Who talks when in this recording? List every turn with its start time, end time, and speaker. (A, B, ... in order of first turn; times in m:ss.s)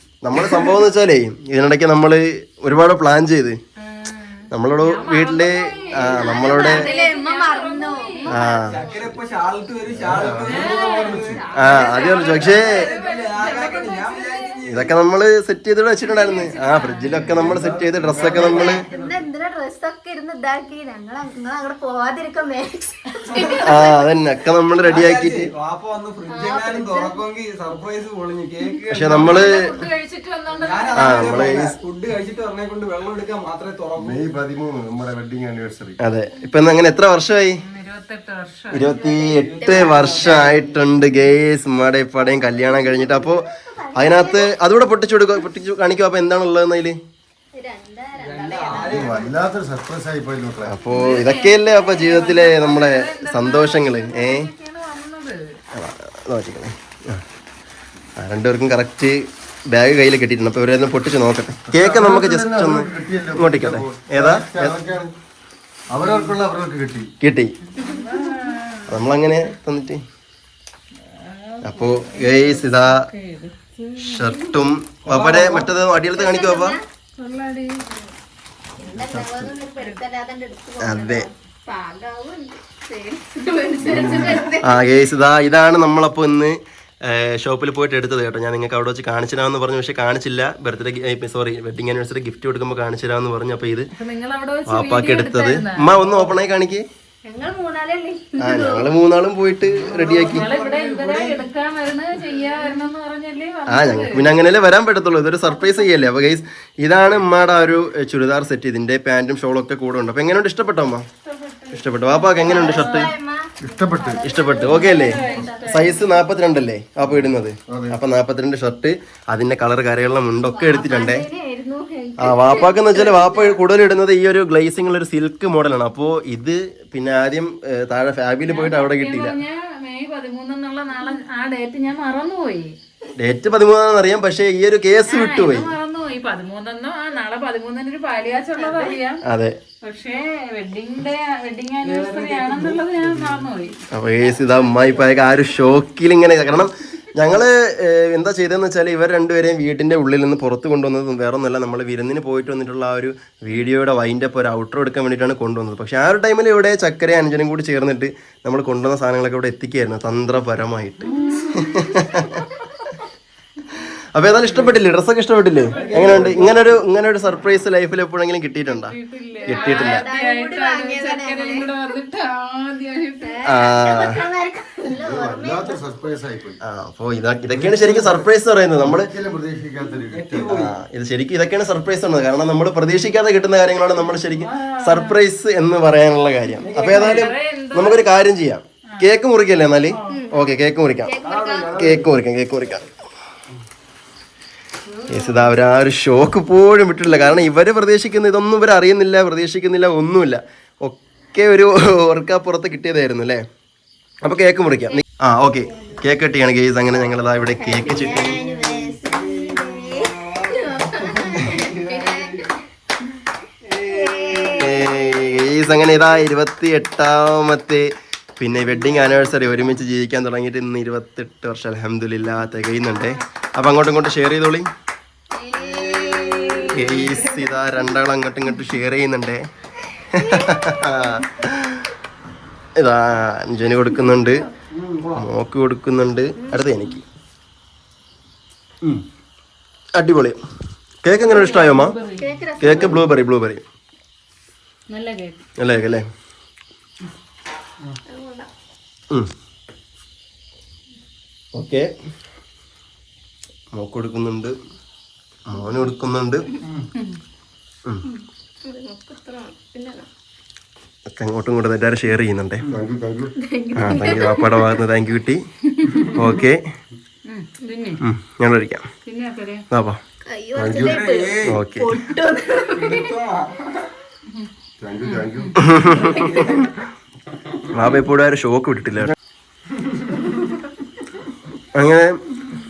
0:00.2-0:03.6 A
0:03.8-0:09.1 B
0:04.5-0:06.8 A
0:06.2-0:08.3 C
0:08.3-0:08.8 A
0:08.6-0:14.9 D
0:09.9-0:11.4 E
0:10.2-0:14.6 B
0:11.5-0:12.8 A
0:11.8-0:12.2 C
0:14.6-0:18.8 A
0:16.2-0:17.5 B
0:17.1-0:19.2 D
0:18.2-0:24.0 C
0:23.2-0:23.8 D
0:23.6-0:25.5 A
0:24.8-0:29.4 D
0:26.3-0:27.2 C
0:28.8-0:31.5 B
0:28.9-0:29.6 A
0:30.5-0:34.2 D
0:31.0-0:31.7 A
0:34.0-0:36.0 E
0:36.0-0:37.6 A
0:37.6-0:38.9 B
0:38.7-0:47.0 A
0:38.9-0:40.9 C
0:39.4-0:40.3 D
0:42.2-0:44.8 C
0:47.5-0:49.4 C
0:48.1-0:49.3 D
0:48.9-0:50.9 E
0:50.7-0:54.5 A
0:50.9-0:55.4 B
0:55.7-0:57.2 A
0:58.2-0:59.2 A
0:59.7-1:04.8 A
1:01.7-1:05.1 E
1:05.9-1:07.1 E
1:06.0-1:06.3 D
1:07.2-1:07.5 A
1:07.7-1:09.0 B
1:08.9-1:10.0 A
1:11.0-1:14.4 B
1:11.6-1:13.0 A
1:14.0-1:16.8 A
1:15.0-1:15.7 D
1:16.1-1:16.8 C
1:17.2-1:17.7 B
1:18.8-1:25.1 C
1:18.9-1:19.5 E
1:20.8-1:21.3 A
1:23.8-1:24.4 E
1:24.6-1:33.9 A
1:34.0-1:36.0 B
1:34.7-1:36.8 A
1:36.0-1:36.3 D
1:37.2-1:38.9 C
1:38.4-1:40.5 A
1:39.6-1:41.5 D
1:40.3-1:44.3 B
1:43.7-1:51.0 A
1:51.2-1:53.1 B
1:51.7-1:53.1 A
1:52.4-1:56.1 C
1:53.6-1:54.3 E
1:54.2-2:01.3 A
1:54.4-1:56.1 B
1:57.7-1:58.0 E
2:00.5-2:03.6 C
2:02.2-2:09.4 A
2:08.5-2:12.7 B
2:13.2-2:15.7 A
2:15.1-2:19.2 B
2:18.6-2:19.0 C
2:19.2-2:19.6 A
2:19.8-2:23.8 B
2:21.8-2:23.5 D
2:23.9-2:42.5 A
2:24.3-2:24.8 C
2:41.1-2:42.2 B
2:43.8-2:48.9 A
2:44.4-2:44.7 D
2:45.7-2:46.7 D
2:48.7-2:53.4 B
2:49.4-2:51.7 C
2:49.5-2:50.0 A
2:53.2-2:55.8 C
2:53.4-2:54.2 A
2:54.9-2:56.6 E
2:56.6-2:59.1 A
2:57.5-2:58.3 E
2:58.8-3:00.6 E
3:00.0-3:00.8 D
3:00.5-3:11.2 A
3:04.3-3:05.2 B
3:06.6-3:07.3 D
3:06.8-3:08.1 B
3:09.9-3:10.3 B
3:10.1-3:10.4 C
3:11.0-3:11.8 C
3:11.2-3:12.1 D
3:11.7-3:12.9 A
3:14.9-3:15.6 B
3:15.1-3:23.4 A
3:24.2-3:28.4 A
3:25.7-3:26.0 C
3:27.6-3:32.6 C
3:27.8-3:32.5 D
3:33.6-3:34.8 D
3:33.8-3:35.4 C
3:34.6-3:37.9 A
3:38.4-3:44.7 A
3:38.9-3:39.5 D
3:45.3-3:47.2 C
3:45.6-3:47.8 B
3:46.7-3:49.4 A
3:50.1-3:51.9 A
3:52.8-3:54.5 A
3:54.7-3:55.3 D
3:55.1-3:57.0 A
4:00.0-4:00.4 A
4:01.0-4:02.0 A
4:01.1-4:02.9 B
4:02.2-4:03.1 C
4:02.6-4:03.6 A
4:04.9-4:05.4 B
4:05.6-4:06.0 A
4:08.1-4:08.5 C
4:11.5-4:11.9 A
4:13.7-4:14.5 A
4:15.4-4:16.4 A
4:18.0-4:20.1 C
4:21.2-4:22.6 A
4:22.7-4:23.3 E
4:23.4-4:24.8 C
4:23.8-4:25.4 A
4:25.7-4:26.2 B
4:26.1-4:26.6 A
4:27.2-4:28.0 B
4:28.0-4:28.9 A
4:29.0-4:29.6 B
4:29.7-4:30.0 A
4:30.2-4:33.1 C
4:30.6-4:31.0 E
4:30.7-4:31.6 D
4:31.4-4:31.9 A
4:32.7-4:33.9 D
4:34.8-4:35.6 E
4:35.0-4:36.2 B
4:35.6-4:36.7 A
4:35.8-4:36.8 D
4:37.7-4:39.1 A
4:41.7-4:42.2 A